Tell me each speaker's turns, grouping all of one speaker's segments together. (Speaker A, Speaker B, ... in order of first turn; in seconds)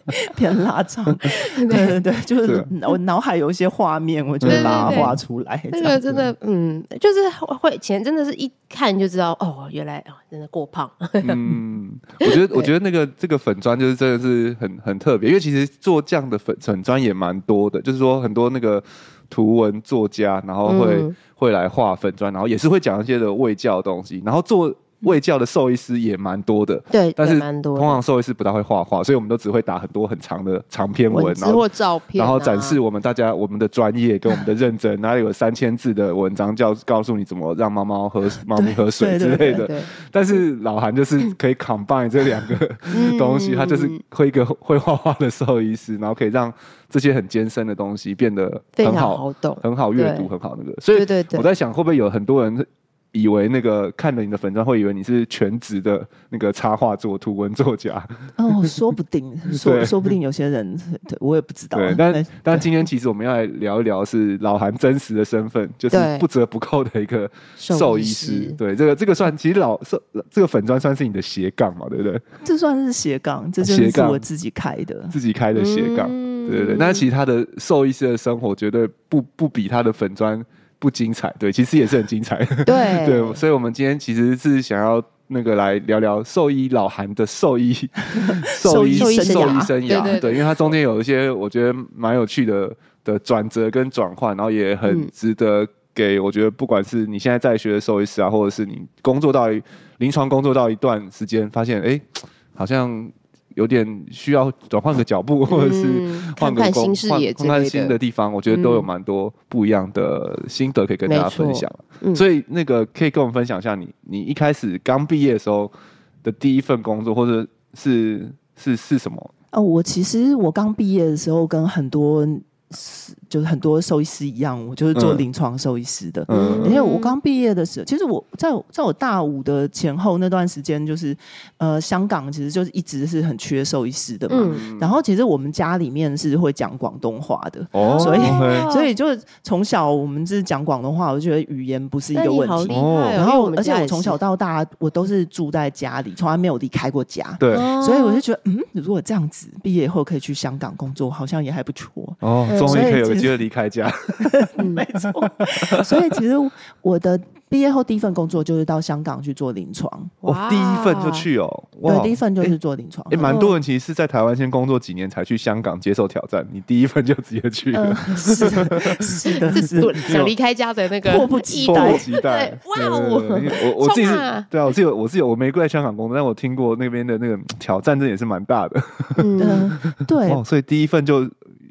Speaker A: 0.1-6.2, 38.5-39.7, 58.4-62.7, 72.4-75.1, 88.2-90.2, 119.5-153.4, 154.2-160.1, 161.8-163.4, 167.7-170.2, 171.0-172.1, 179.4-180.4
Speaker B: 1.3-1.9, 4.5-5.2, 5.7-11.5, 12.2-12.7, 20.7-21.1, 26.9-28.0, 31.1-32.8, 39.5-39.9, 42.9-44.0, 48.8-50.3, 50.9-51.5, 65.9-66.2, 67.6-68.6, 75.5-77.1, 82.7-83.4, 88.8-90.6, 105.5-108.0, 108.5-108.9, 111.1-112.2, 126.3-127.2, 134.3-134.6, 137.8-138.9, 142.1-144.2, 147.5-148.2, 152.5-153.0, 154.6-154.8, 160.2-161.2, 163.2-163.6, 169.3-174.4, 179.2-179.7
Speaker C: 2.4-2.7, 4.4-5.2, 11.2-31.6, 32.1-58.8, 59.5-60.1, 61.7-72.2, 73.6-74.2, 75.1-115.7, 116.2-119.3, 124.9-125.2, 126.3-126.8, 134.3-135.0, 137.7-138.7, 142.7-143.2, 147.4-147.7, 152.2-154.5, 155.2-156.0, 160.2-162.5, 163.1-169.2, 170.0-170.3, 171.7-181.3